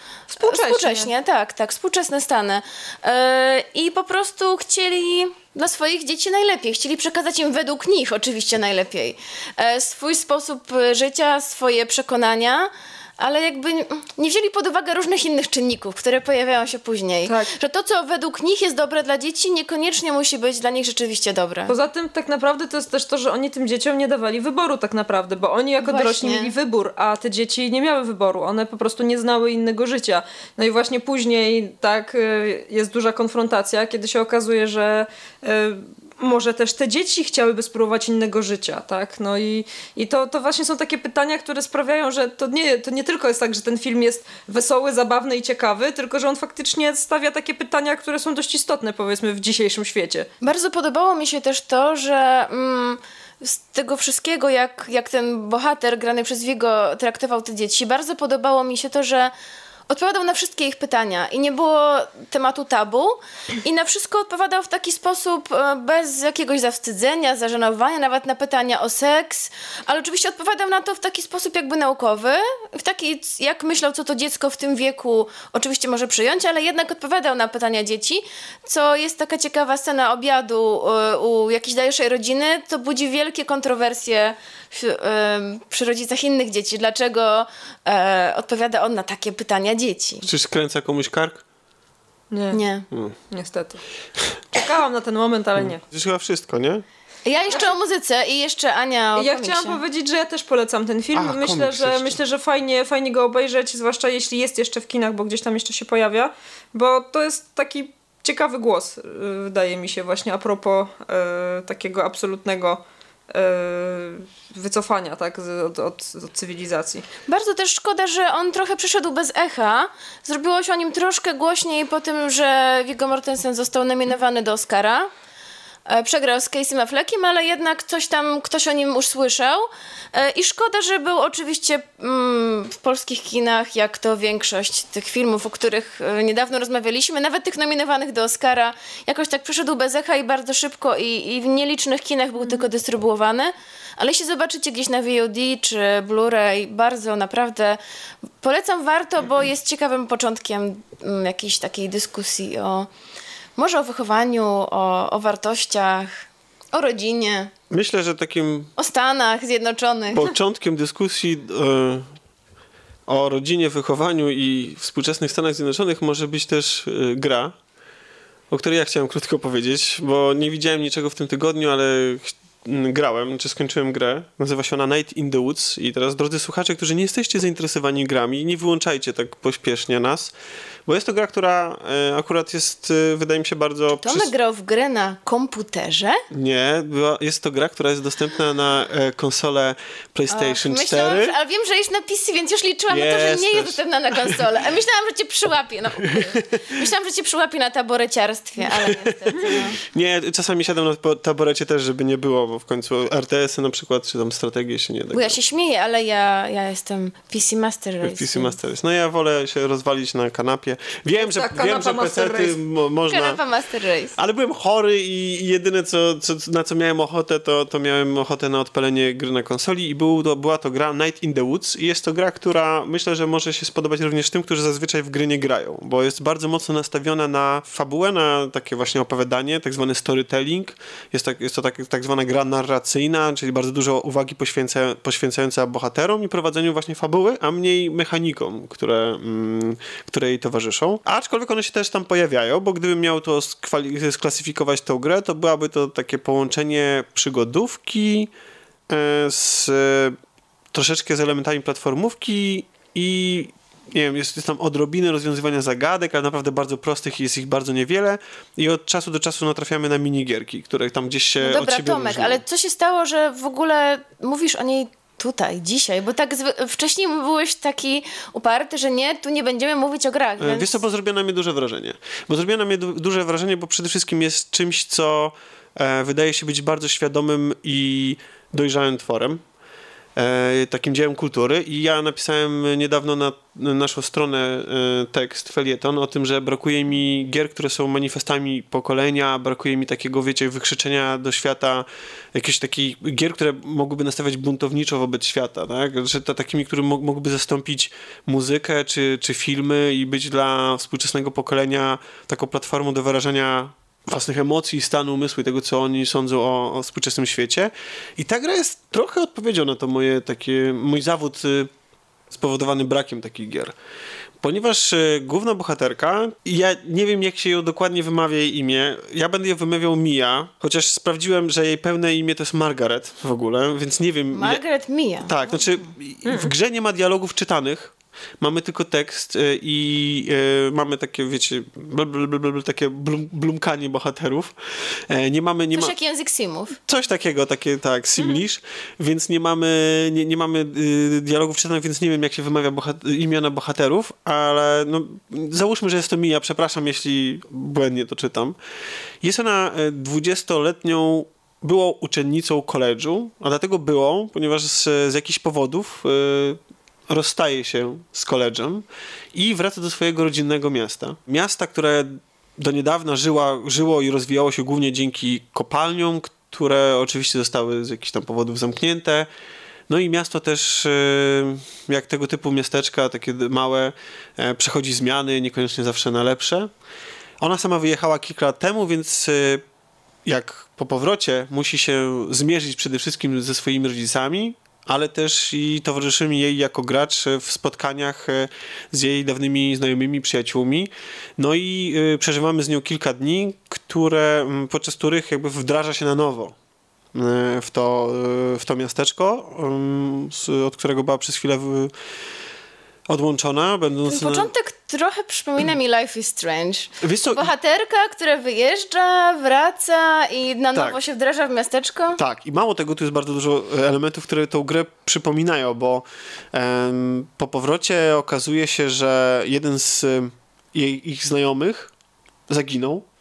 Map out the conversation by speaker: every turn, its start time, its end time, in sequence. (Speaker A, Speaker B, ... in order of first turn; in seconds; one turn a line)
Speaker A: 0.3-1.1
Speaker B: 0.4-21.7
Speaker A: 17.2-17.5
Speaker A: 21.7-50.3
Speaker B: 25.8-26.5
Speaker B: 50.4-59.3
Speaker B: 59.9-90.3
Speaker C: 90.2-91.4
Speaker A: 92.3-92.6
Speaker B: 92.5-92.9
Speaker C: 92.9-93.2
Speaker A: 93.3-93.8
Speaker A: 94.5-95.8
Speaker C: 95.6-96.8
Speaker B: 97.2-99.8
Speaker A: 99.2-117.0
Speaker C: 101.1-102.2
Speaker B: 117.3-125.1
Speaker B: 125.8-147.8
Speaker B: 148.4-152.9
Speaker B: 153.6-157.5
Speaker C: 157.7-158.7
Speaker B: 158.8-160.3
Speaker C: 160.1-162.1
Speaker C: 163.1-167.5
Speaker C: 168.5-180.3
Speaker C: 180.8-184.3
Speaker B: 184.0-186.2
Speaker C: 186.3-191.3
Speaker B: 190.3-199.8
Speaker C: 192.9-194.4
Speaker C: 196.1-196.5
Speaker C: 198.7-205.4
Speaker B: 205.1-208.6
Speaker C: 208.0-213.4
Speaker A: 211.2-212.6
Speaker B: 213.1-214.2
Speaker C: 214.2-248.3
Speaker C: 248.9-250.2
Speaker C: 250.7-262.4
Speaker B: 261.4-270.8
Speaker C: 270.4-279.4
Speaker C: 280.1-311.7
Speaker C: 312.3-313.7
Speaker C: 314.4-324.6
Speaker B: 324.3-325.6
Speaker C: 325.2-335.9
Speaker A: 326.2-326.5
Speaker B: 335.7-336.8
Speaker C: 336.9-348.6
Speaker C: 349.2-369.3
Speaker C: 369.9-376.7
Speaker C: 377.4-379.6
Speaker C: 380.2-396.5
Speaker C: 397.1-401.9
Speaker C: 403.1-404.5
Speaker B: 404.1-412.2
Speaker C: 407.0-407.5
Speaker C: 410.7-411.0
Speaker C: 412.2-421.9
Speaker C: 422.5-423.0